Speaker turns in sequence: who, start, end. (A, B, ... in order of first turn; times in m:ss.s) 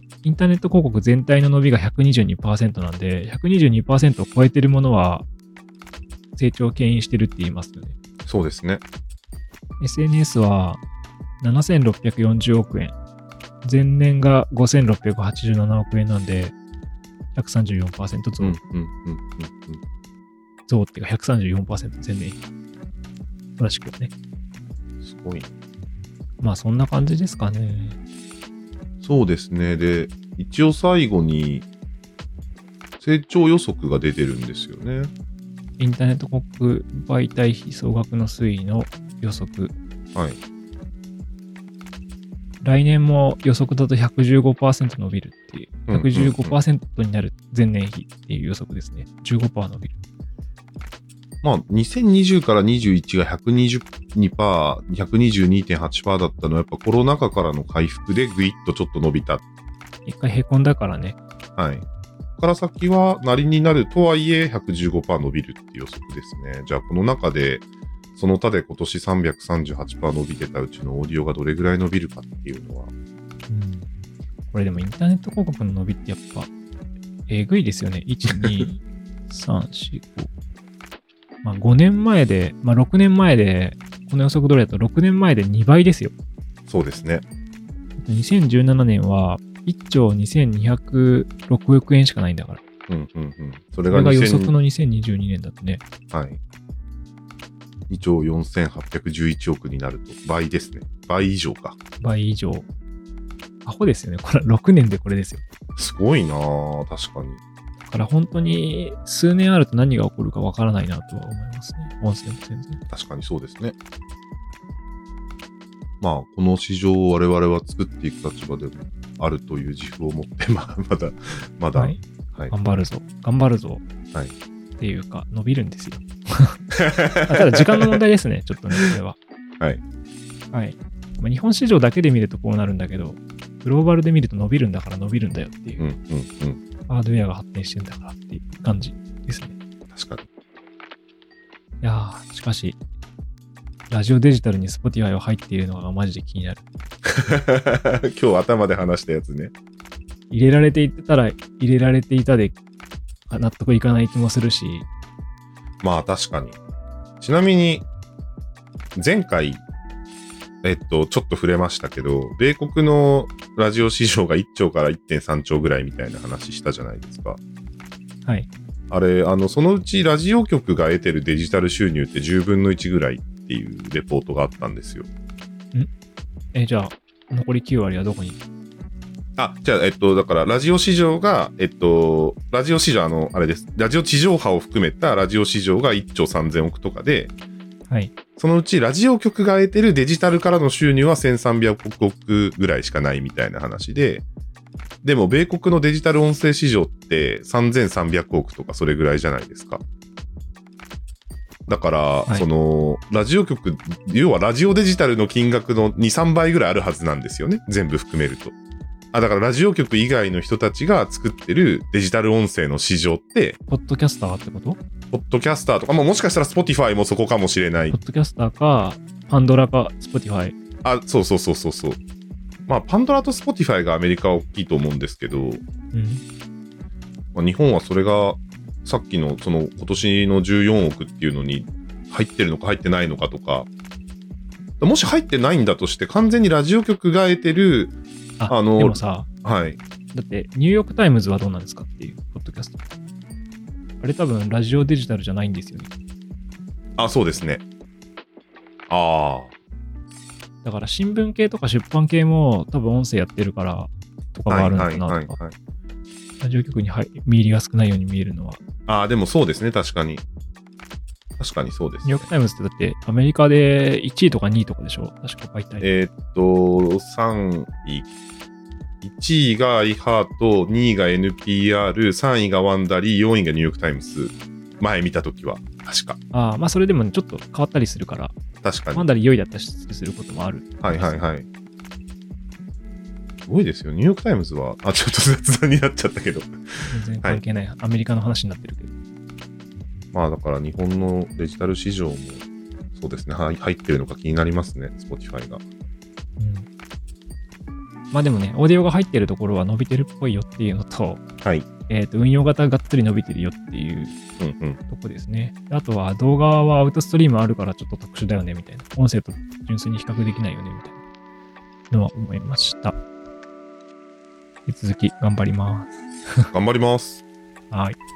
0:00.2-0:05.3 A
0:06.4-0:08.0 A
0:08.2-0:08.8 B
0:09.8-0:10.8 A
0:11.4-0:13.0 A
0:13.6-0:16.6 A
0:17.3-0:18.6 A
0:18.4-0:19.8 B
0:20.7-0:22.4 A
0:23.6-0:24.1 A
0:25.0-0:25.6 B
0:26.4-0:28.0 A
0:29.0-0:31.7 B
0:33.0-0:35.1 B
0:35.8-0:39.8 A
0:42.6-0:50.0 A
0:45.9-0:46.6 B
0:51.4-0:59.4 B
1:00.1-1:01.2 A
1:01.6-1:01.9 B
1:02.4-1:07.6 B
1:08.2-1:12.9 B
1:13.5-1:13.9 A
1:14.5-1:16.5 A
1:17.3-1:20.3 A
1:21.4-1:26.1 A
1:26.7-1:27.2 B
1:28.0-1:32.6 A
1:32.9-1:34.5 B
1:33.9-1:35.8 A
1:36.1-1:36.4 B
1:37.9-1:41.8 B
1:42.0-1:42.7 A
1:43.6-1:45.4 A
1:45.8-1:47.4 B
1:47.9-1:52.8 A
1:52.9-1:53.8 B
1:56.0-2:02.5 B
2:01.8-2:03.8 A
2:04.8-2:06.6 A
2:06.8-2:07.6 B
2:07.3-2:09.2 A
2:10.5-2:15.8 A
2:15.8-2:16.6 B
2:16.9-2:19.6 A
2:19.9-2:20.3 B
2:21.8-2:22.8 A
2:23.9-2:26.6 A
2:27.1-2:29.5 B
2:30.3-2:32.6 A
2:33.3-2:34.9 A
2:35.8-2:36.6 B
2:37.2-2:37.9 B
2:39.0-2:39.6 B
2:40.6-2:47.4 B
2:48.9-2:55.1 B
2:56.5-2:58.4 A
2:59.4-3:07.3 B
3:07.9-3:08.2 A
3:08.4-3:14.2 B
3:15.0-3:19.8 B
3:21.7-3:28.6 B
3:29.1-3:33.6 B
3:33.7-3:34.8 A
3:35.1-3:38.0 B
3:37.9-3:40.6 A
3:40.8-3:42.0 B
3:42.7-3:45.6 B
3:45.9-3:46.2 A
3:47.4-3:53.7 B
3:54.8-3:57.9 B
3:58.4-3:59.3 A
3:58.5-3:59.8 B
4:00.1-4:02.8 A
4:04.0-4:05.9 A
4:07.0-4:07.6 B
4:08.9-4:09.5 B
4:10.6-4:15.4 A
4:14.5-4:15.6 B
4:16.4-4:18.6 A
4:18.9-4:20.2 B
4:21.4-4:22.3 B
4:22.0-4:25.9 A
4:25.8-4:28.1 B
4:29.0-4:36.2 B
4:36.3-4:38.4 A
4:38.6-4:39.1 B
4:38.9-4:41.2 A
4:40.8-4:41.5 B
4:43.5-4:47.4 B
4:46.8-4:49.0 A
4:50.1-4:55.6 B
4:56.4-4:56.7 A
4:58.1-5:01.2 A
5:01.9-5:04.2 A
5:04.4-5:04.8 B
5:04.9-5:11.0 A
5:11.9-5:13.0 A
5:14.7-5:16.5 A
5:16.5-5:17.2 B
5:17.7-5:18.0 A